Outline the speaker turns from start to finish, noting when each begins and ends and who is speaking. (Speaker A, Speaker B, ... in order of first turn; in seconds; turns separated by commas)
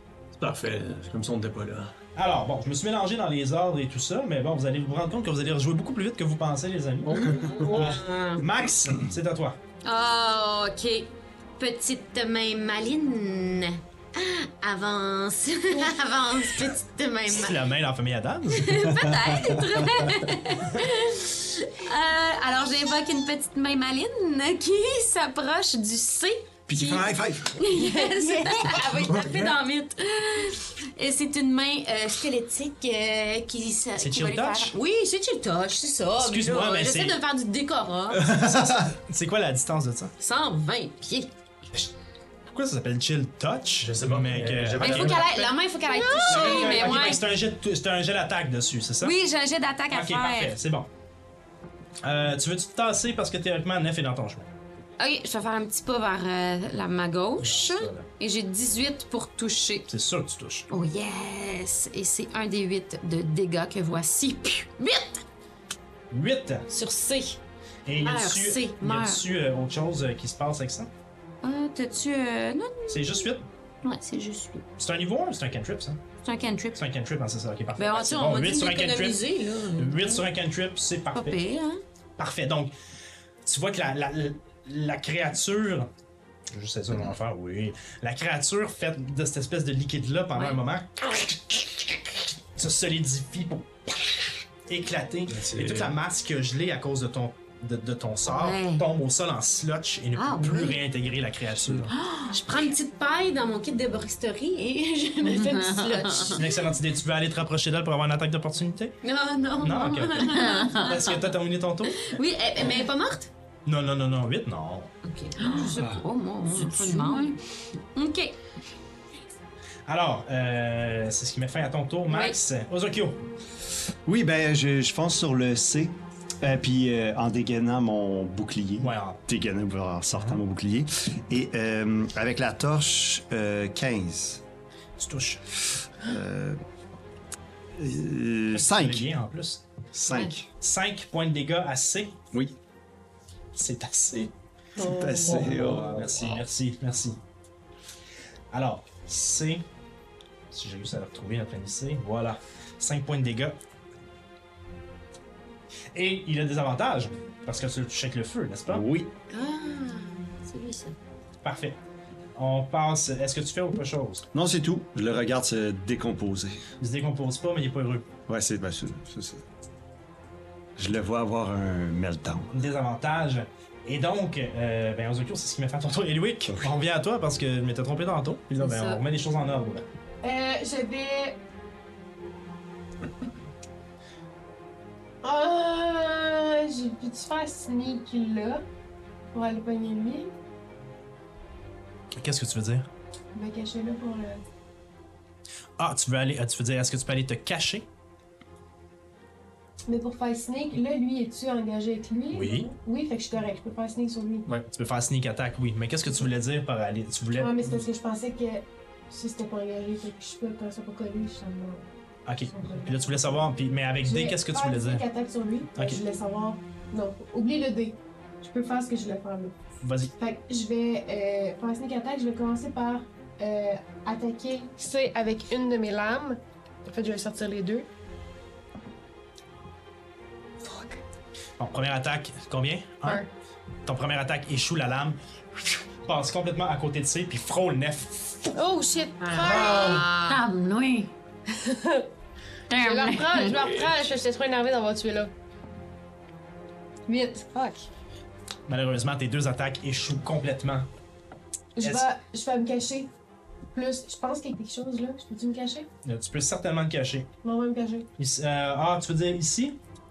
Speaker A: 0.4-1.9, Speaker B: 2.1-9.6, Speaker C: 7.2-8.4, Speaker D: 7.4-7.7, Speaker C: 9.8-17.6, Speaker B: 17.3-19.3, Speaker C: 18.5-38.4, Speaker D: 26.7-27.6, Speaker E: 28.1-28.6, Speaker D: 28.9-29.5, Speaker B: 34.0-34.7, Speaker B: 36.1-37.2, Speaker D: 38.3-38.9, Speaker B: 38.4-40.1, Speaker C: 40.2-41.3, Speaker B: 42.5-45.3, Speaker A: 43.8-45.6, Speaker C: 44.8-47.2, Speaker E: 45.9-46.9, Speaker B: 46.2-49.2, Speaker C: 49.0-50.6, Speaker B: 49.9-50.9, Speaker B: 52.0-54.5, Speaker C: 55.0-59.9, Speaker B: 57.4-58.1, Speaker B: 59.9-60.6, Speaker C: 60.7-65.2, Speaker B: 66.1-66.7, Speaker C: 66.7-67.4, Speaker B: 67.8-70.9, Speaker C: 68.0-69.2, Speaker C: 71.4-73.3, Speaker B: 72.9-73.5, Speaker C: 73.8-74.6, Speaker B: 74.8-76.0, Speaker C: 76.2-76.8, Speaker B: 76.8-81.4, Speaker C: 77.8-80.2, Speaker C: 81.1-81.8, Speaker B: 82.2-82.7, Speaker B: 83.4-85.9, Speaker B: 86.5-102.0, Speaker C: 90.3-90.6, Speaker A: 95.3-96.0, Speaker C: 98.2-98.8, Speaker C: 100.1-100.8, Speaker C: 102.2-106.6, Speaker F: 105.2-106.4, Speaker B: 106.3-109.0, Speaker C: 109.0-111.2, Speaker B: 109.6-112.1, Speaker F: 110.2-111.1, Speaker C: 112.0-113.3, Speaker B: 113.6-114.9, Speaker C: 115.0-117.4, Speaker F: 115.4-115.8, Speaker F: 116.4-117.4, Speaker C: 117.9-118.3, Speaker B: 119.9-123.2, Speaker C: 122.1-122.4, Speaker D: 124.0-134.4, Speaker B: 128.8-129.2, Speaker B: 130.2-130.4, Speaker B: 135.0-135.4, Speaker D: 136.0-136.6, Speaker D: 137.7-139.1, Speaker B: 138.5-139.6, Speaker D: 139.9-140.5, Speaker B: 140.6-142.2, Speaker B: 143.5-144.3, Speaker E: 144.8-145.3, Speaker D: 144.8-146.4, Speaker B: 145.0-147.2, Speaker A: 145.5-146.3, Speaker B: 148.5-149.6, Speaker B: 150.5-153.6, Speaker B: 155.9-158.8, Speaker D: 158.7-159.1, Speaker C: 159.3-160.9, Speaker B: 161.4-161.8, Speaker B: 162.3-164.2, Speaker D: 164.3-166.6, Speaker B: 166.8-168.1, Speaker D: 168.3-169.4, Speaker D: 170.8-172.5, Speaker B: 172.5-179.8, Speaker C: 178.6-179.0, Speaker E: 180.2-181.4, Speaker E: 185.2-188.7, Speaker E: 189.3-190.3, Speaker B: 192.1-192.9, Speaker E: 193.3-194.4, Speaker B: 195.8-197.8, Speaker E: 199.9-204.5, Speaker B: 202.3-202.7, Speaker B: 204.7-207.8, Speaker E: 207.3-211.9, Speaker B: 212.2-215.0, Speaker E: 212.4-213.0, Speaker E: 214.0-219.6, Speaker B: 215.8-216.0, Speaker B: 219.8-220.1, Speaker E: 220.2-227.9, Speaker E: 230.7-231.0, Speaker B: 231.6-233.2, Speaker B: 233.8-238.5, Speaker E: 238.5-240.1, Speaker C: 239.2-240.4, Speaker F: 239.4-241.1, Speaker E: 241.5-242.1, Speaker F: 242.7-243.8, Speaker E: 242.7-245.3, Speaker E: 247.1-247.9, Speaker B: 248.7-250.9, Speaker E: 251.8-253.1, Speaker B: 251.8-252.1, Speaker E: 253.7-255.9, Speaker B: 256.0-257.3, Speaker E: 257.4-258.1, Speaker B: 258.2-259.8